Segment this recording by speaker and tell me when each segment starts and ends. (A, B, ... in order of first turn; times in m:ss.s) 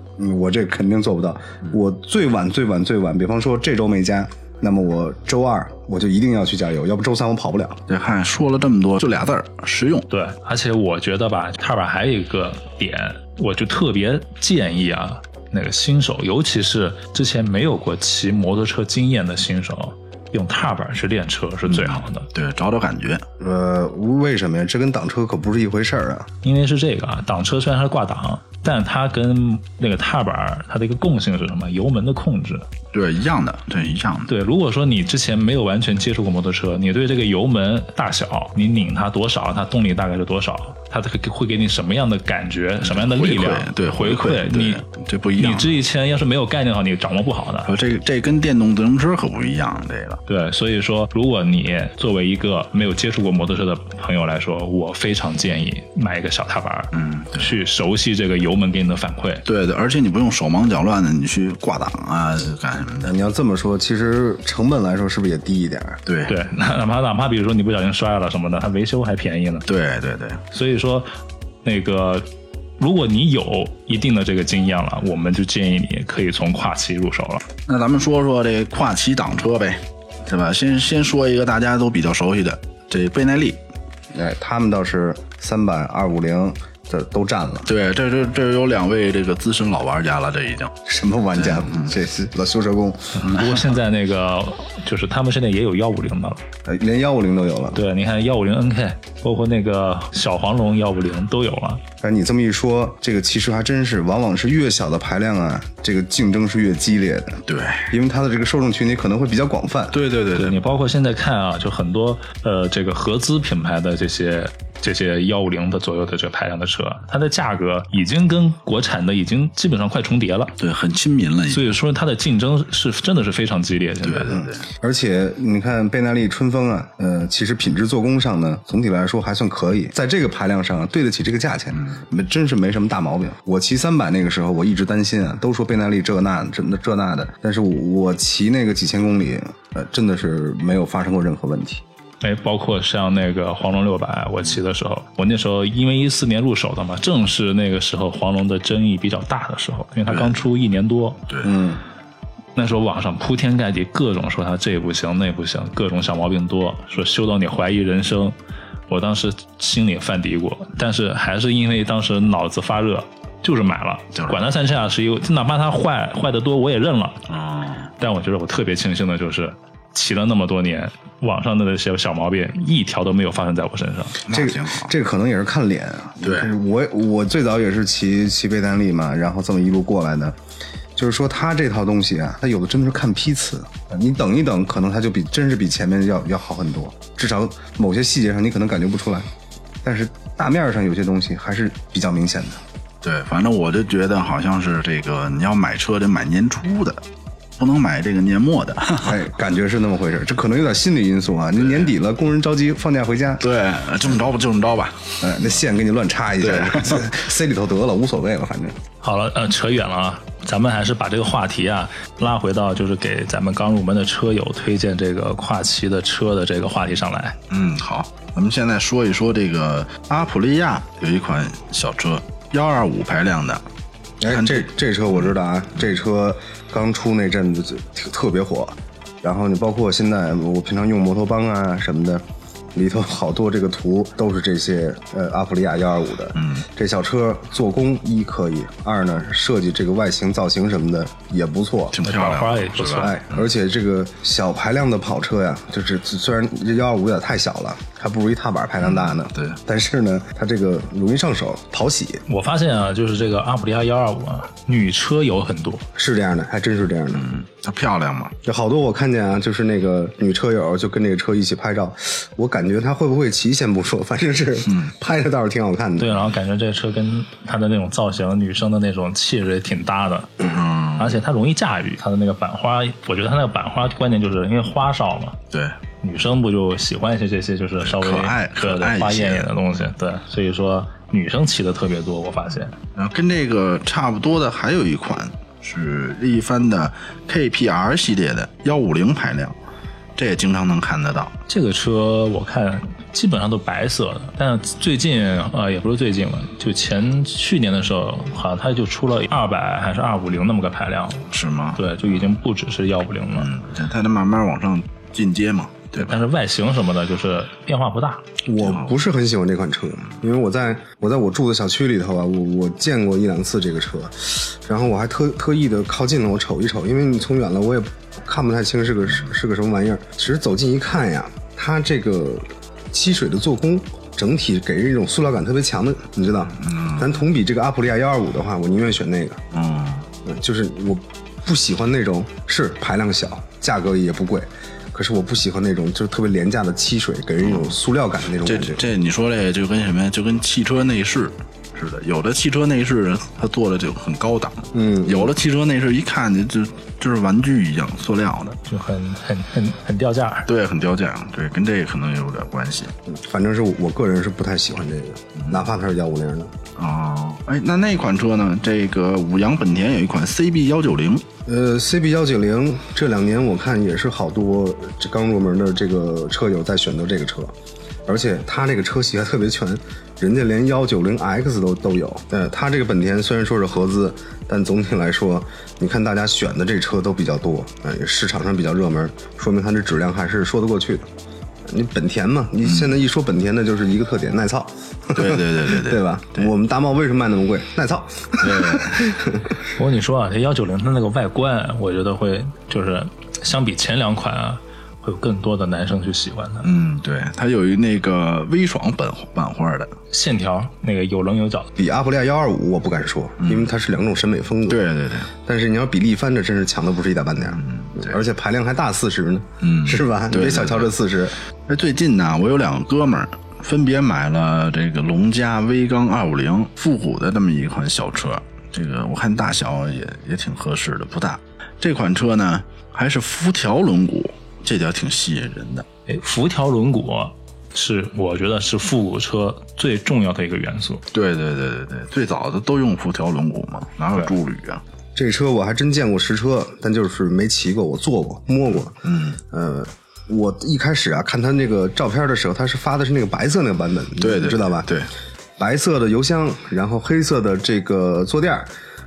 0:00.2-0:07.8 A
0:07.9-0:10.1 B
0:10.1-0:22.3 C
0:21.7-0:23.2 B
0:23.4-0:26.3 A
0:26.4-0:32.6 C
0:32.9-0:34.3 B
0:34.3-0:44.8 C
0:42.8-0:45.8 B
0:45.4-0:47.8 C
0:47.7-0:50.2 B
0:50.3-0:59.4 C
0:56.9-0:57.5 B
0:59.4-1:03.1 B
1:03.0-1:06.0 A
1:06.0-1:06.3 B
1:06.2-1:09.6 C
1:09.7-1:10.4 B
1:10.5-1:11.1 C
1:11.6-1:12.2 C
1:12.8-1:17.4 C
1:17.7-1:23.6 B
1:24.1-1:27.7 A
1:27.6-1:30.7 B
1:30.8-1:33.3 A
1:31.4-1:31.9 B
1:33.2-1:36.4 C
1:36.6-1:37.8 A
1:37.7-1:41.8 C
1:42.0-1:50.0 A
1:47.5-1:47.9 B
1:49.9-1:50.6 B
1:50.3-2:00.5 C
2:00.6-2:01.7 B
2:01.5-2:04.4 C
2:04.0-2:04.6 B
2:04.4-2:21.8 A
2:22.2-2:31.2 C
2:30.1-2:30.4 B
2:31.4-2:31.8 A
2:32.6-2:38.4 C
2:38.9-2:47.3 C
2:44.1-2:44.4 B
2:47.3-2:47.9 B
2:48.0-2:54.2 C
2:54.2-2:54.9 B
2:54.3-3:00.4 A
2:56.2-2:56.5 B
3:01.0-3:09.3 A
3:09.8-3:12.6 A
3:13.0-3:17.0 B
3:17.6-3:19.2 B
3:19.0-3:23.5 A
3:21.6-3:21.9 B
3:23.4-3:25.2 B
3:25.2-3:28.8 A
3:26.4-3:27.0 B
3:29.0-3:37.4 C
3:37.5-3:43.6 B
3:44.2-3:52.2 A
3:44.3-3:44.7 B
3:52.7-4:02.0 A
3:56.4-3:56.6 B
4:01.9-4:03.4 B
4:02.0-4:03.2 C
4:03.0-4:12.2 A
4:08.8-4:09.6 B
4:12.3-4:15.8 C
4:15.9-4:17.3 A
4:17.1-4:18.3 B
4:18.4-4:26.2 A
4:26.0-4:30.4 C
4:30.4-4:31.2 B
4:31.0-4:35.4 C
4:35.5-4:35.8 B
4:36.0-4:42.7 C
4:37.8-4:39.5 B
4:42.9-4:49.6 B
4:50.2-4:51.3 B
4:51.5-5:03.5 C
5:01.3-5:02.2 B
5:03.4-5:06.2 B
5:05.9-5:08.2 C
5:08.4-5:29.4 A
5:08.6-5:09.0 B
5:26.6-5:27.1 B
5:29.5-5:30.1 B
5:30.2-5:38.9 A
5:37.4-5:37.8 B
5:38.4-5:48.6 B
5:44.7-5:45.3 A
5:48.6-5:50.5 C
5:50.5-5:52.9 B
5:53.0-5:56.5 A
5:55.4-5:55.7 B
5:56.8-6:01.2 B
6:01.4-6:07.5 A
6:08.0-6:21.0 A
6:21.6-6:29.5 A
6:22.7-6:22.9 B
6:25.1-6:26.5 B
6:28.4-6:29.1 B
6:29.7-6:36.7 C
6:36.6-6:39.9 B
6:40.1-6:41.7 C
6:41.8-6:44.8 A
6:43.4-6:43.7 B
6:44.7-6:45.3 B
6:45.4-6:51.4 A
6:47.5-6:48.2 B
6:49.6-6:50.9 B
6:51.7-7:05.8 B
7:06.1-7:11.0 C
7:11.1-7:14.8 B
7:15.2-7:19.0 A
7:19.0-7:19.4 B
7:19.5-7:24.9 A
7:24.2-7:25.1 B
7:25.6-7:28.7 A